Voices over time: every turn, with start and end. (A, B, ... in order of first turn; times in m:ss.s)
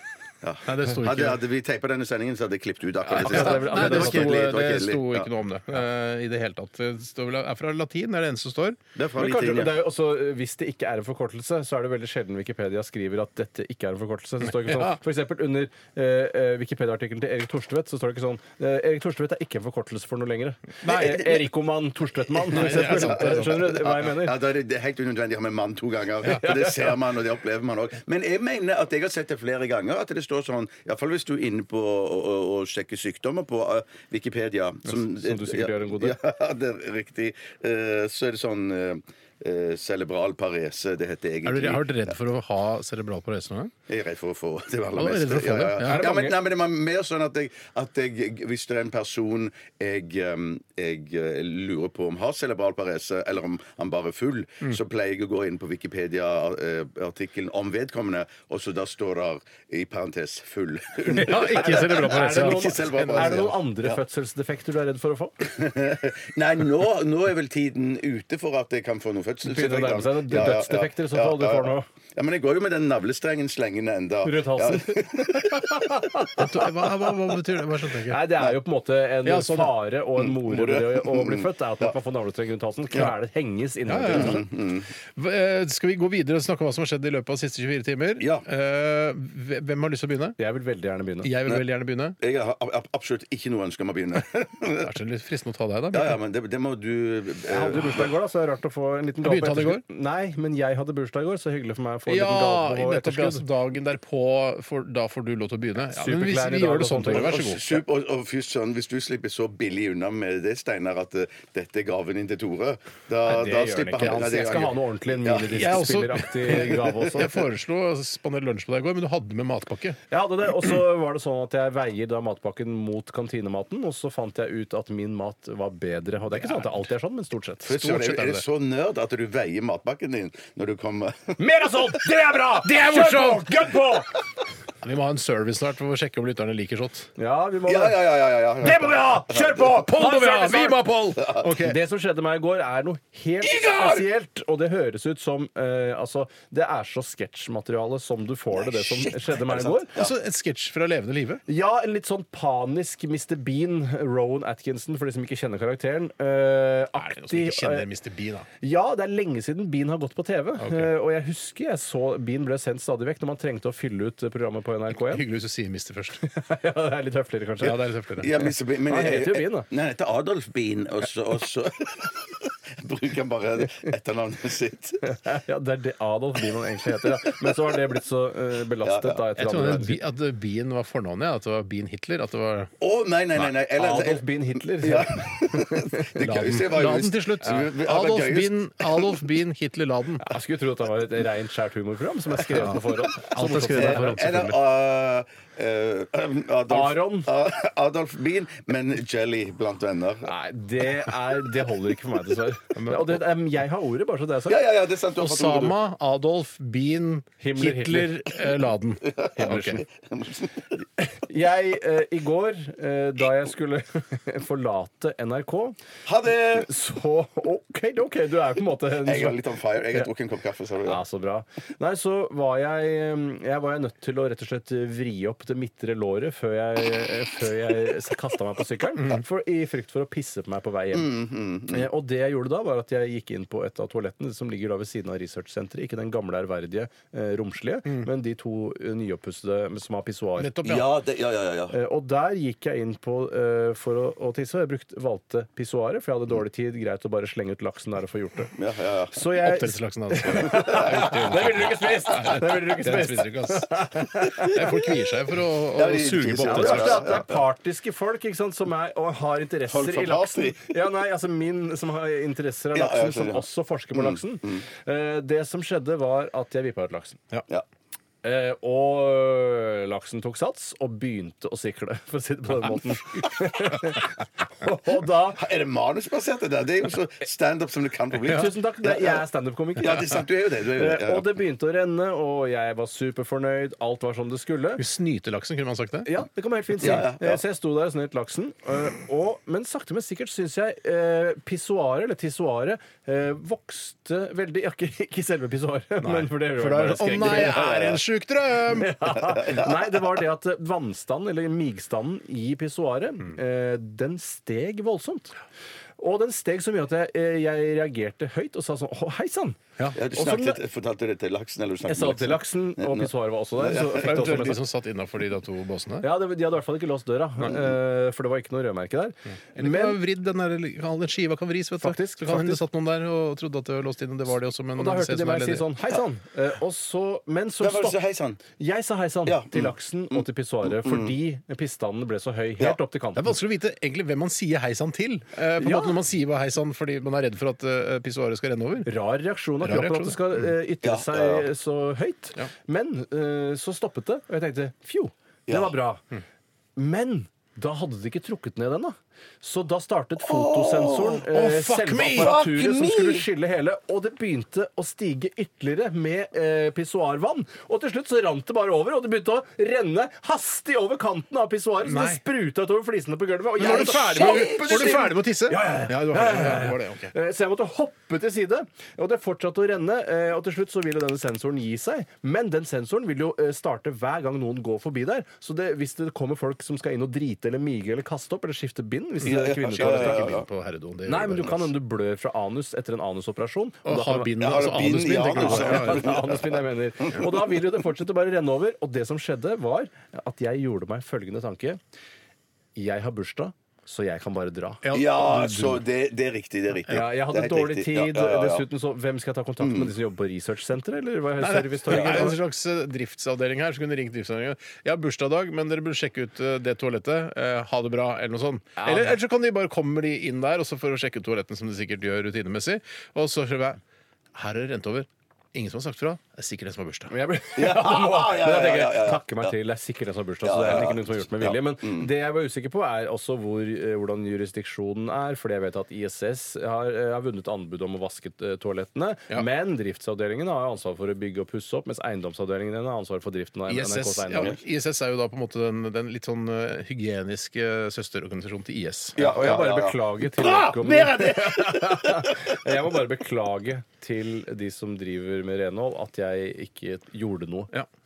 0:00.4-0:05.3 A
0:00.7-0:01.4 B
0:03.0-0:04.5 C
0:03.2-0:08.8 B
0:09.0-0:09.8 A
0:09.2-0:24.4 C
0:14.4-0:15.0 B
0:20.8-0:21.2 B
0:20.8-0:21.5 A
0:22.3-0:42.2 A
0:22.5-0:23.8 B
0:26.3-0:26.9 C
0:34.8-0:36.2 C
0:41.4-0:43.7 B
0:43.9-1:04.0 A
0:45.0-0:46.0 B
0:45.8-0:46.4 C
1:01.1-1:03.5 B
1:01.1-1:05.4 C
1:05.4-1:16.8 A
1:09.4-1:11.9 C
1:14.2-1:16.5 C
1:16.4-1:18.3 B
1:18.1-1:24.4 C
1:19.2-1:19.8 B
1:20.2-1:21.9 A
1:23.9-1:24.5 B
1:24.1-1:24.9 A
1:25.2-1:30.4 B
1:28.2-1:28.4 A
1:30.4-1:31.3 C
1:31.2-1:32.2 B
1:32.2-1:34.9 A
1:34.8-1:36.2 B
1:35.9-1:38.1 A
1:37.5-1:43.4 C
1:39.2-1:39.8 B
1:42.1-1:47.8 B
1:45.9-1:47.4 C
1:47.1-1:55.7 A
1:53.2-1:57.4 C
1:54.0-1:54.6 B
1:55.5-2:00.0 B
1:56.5-1:57.0 A
2:00.1-2:07.7 C
2:06.3-2:06.9 B
2:07.6-2:11.7 A
2:07.7-2:08.4 B
2:11.4-2:14.1 C
2:12.6-2:13.8 B
2:14.8-2:17.1 B
2:17.2-2:20.8 C
2:17.7-2:19.8 A
2:19.8-2:21.8 B
2:21.2-2:21.5 A
2:21.6-2:29.9 C
2:23.4-2:24.1 A
2:28.5-2:30.1 A
2:30.0-2:31.4 B
2:31.5-2:37.9 C
2:37.0-2:38.5 B
2:38.6-2:45.2 C
2:40.6-2:40.9 B
2:45.0-2:46.2 B
2:46.2-2:47.8 C
2:47.6-2:48.4 B
2:48.2-2:55.0 A
2:48.9-2:49.7 C
2:55.0-3:00.0 C
2:58.8-2:59.2 A
2:59.4-3:02.7 B
3:02.8-3:09.2 A
3:03.8-3:06.2 C
3:06.2-3:10.3 B
3:10.2-3:14.3 C
3:12.6-3:14.6 B
3:13.7-3:20.3 A
3:16.7-3:17.3 C
3:20.2-3:24.6 C
3:22.8-3:23.2 B
3:24.4-3:25.8 A
3:25.2-3:29.8 B
3:27.4-3:28.2 C
3:29.1-3:30.8 A
3:31.0-3:35.8 C
3:36.1-3:36.7 A
3:36.5-3:39.4 C
3:39.0-3:41.0 A
3:40.8-3:51.2 C
3:50.9-3:51.9 A
3:51.7-4:00.5 C
4:00.4-4:01.0 B
4:00.6-4:01.8 A
4:01.7-4:08.5 C
4:08.5-4:09.1 A
4:09.1-4:14.7 C
4:09.4-4:17.2 B
4:10.5-4:11.2 A
4:15.7-4:17.4 A
4:16.4-4:27.2 C
4:19.7-4:20.7 A
4:22.7-4:24.6 A
4:28.2-4:35.4 C
4:35.3-4:39.2 A
4:38.3-4:44.8 C
4:39.8-4:41.4 A
4:44.8-4:46.1 B
4:46.0-4:57.8 C
4:46.8-4:47.4 A
4:56.0-4:59.0 B
4:57.2-4:58.0 A
4:58.7-5:05.3 C
4:59.2-5:00.1 A
5:06.0-5:09.6 C
5:09.9-5:14.6 A
5:10.1-5:10.6 C
5:11.9-5:14.6 C
5:13.7-5:16.1 B
5:16.0-5:20.0 C
5:19.6-5:25.7 B
5:21.8-5:22.6 C
5:24.8-5:28.0 C
5:27.6-5:28.4 A
5:28.5-5:33.4 C
5:29.3-5:31.2 A
5:33.2-5:38.9 B
5:35.6-5:36.0 C
5:38.8-5:46.0 C
5:39.6-5:40.5 B
5:40.8-5:41.5 A
5:45.5-5:45.7 A
5:46.8-6:20.4 C
5:50.2-5:51.3 A
5:51.3-5:52.4 B
5:52.0-5:53.3 A
6:01.8-6:02.2 B
6:03.6-6:05.2 A
6:03.6-6:07.1 B
6:19.2-6:21.7 B
6:19.2-6:20.5 A
6:21.1-6:24.4 C
6:23.9-6:26.1 B
6:24.4-6:27.3 A
6:25.4-6:31.8 C
6:32.8-6:34.8 C
6:34.8-6:35.8 B
6:34.9-6:38.7 A
6:36.9-6:42.4 C
6:39.6-6:39.9 A
6:41.4-6:53.8 B
6:48.8-6:49.2 C
6:54.4-6:57.1 B
6:57.1-7:14.6 C
6:57.6-6:59.5 A
7:00.4-7:02.1 A
7:13.7-7:19.3 B
7:19.2-7:22.3 A
7:19.2-7:27.7 C